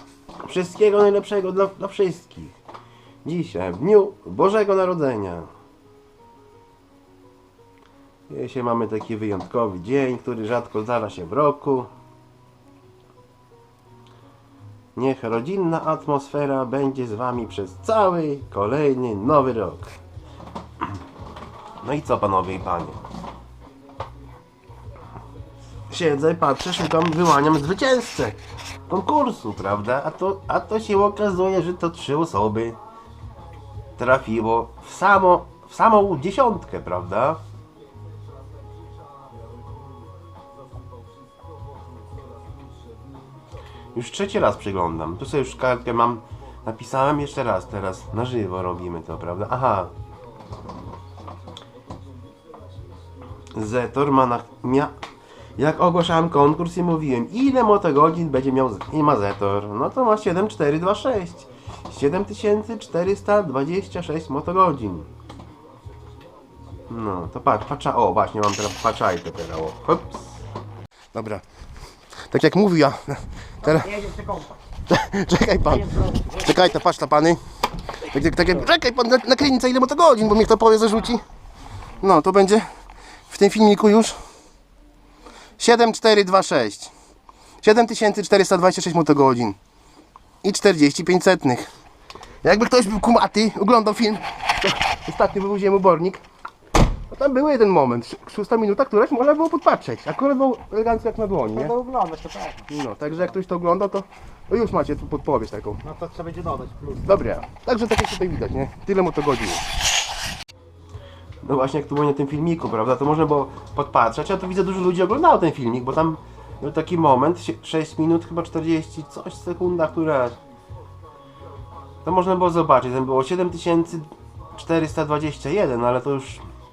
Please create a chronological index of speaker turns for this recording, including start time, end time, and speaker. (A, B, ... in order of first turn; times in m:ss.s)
0:00.4-0:02.6 A
0:03.2-0:05.5 A
0:08.3-0:11.9 A
0:15.0-0:20.0 A
0:21.8-0:23.0 A
0:25.9-0:32.8 A
0:34.0-0:37.4 A
0:43.9-0:49.9 A
0:53.5-0:55.0 A
0:55.6-1:05.1 A
1:06.9-1:10.3 A
1:11.1-1:11.4 A
1:12.2-1:21.2 A
1:13.9-1:14.5 B
1:22.0-1:22.7 A
1:23.3-1:24.2 A
1:25.6-1:26.9 A
1:27.6-1:29.6 A
1:30.4-1:31.7 A
1:32.4-1:36.2 A
1:37.1-1:41.9 A
1:41.8-1:42.6 B
1:42.5-1:46.0 A
1:45.9-1:47.0 B
1:47.0-1:49.7 A
1:51.4-2:00.4 A
2:02.0-2:06.5 A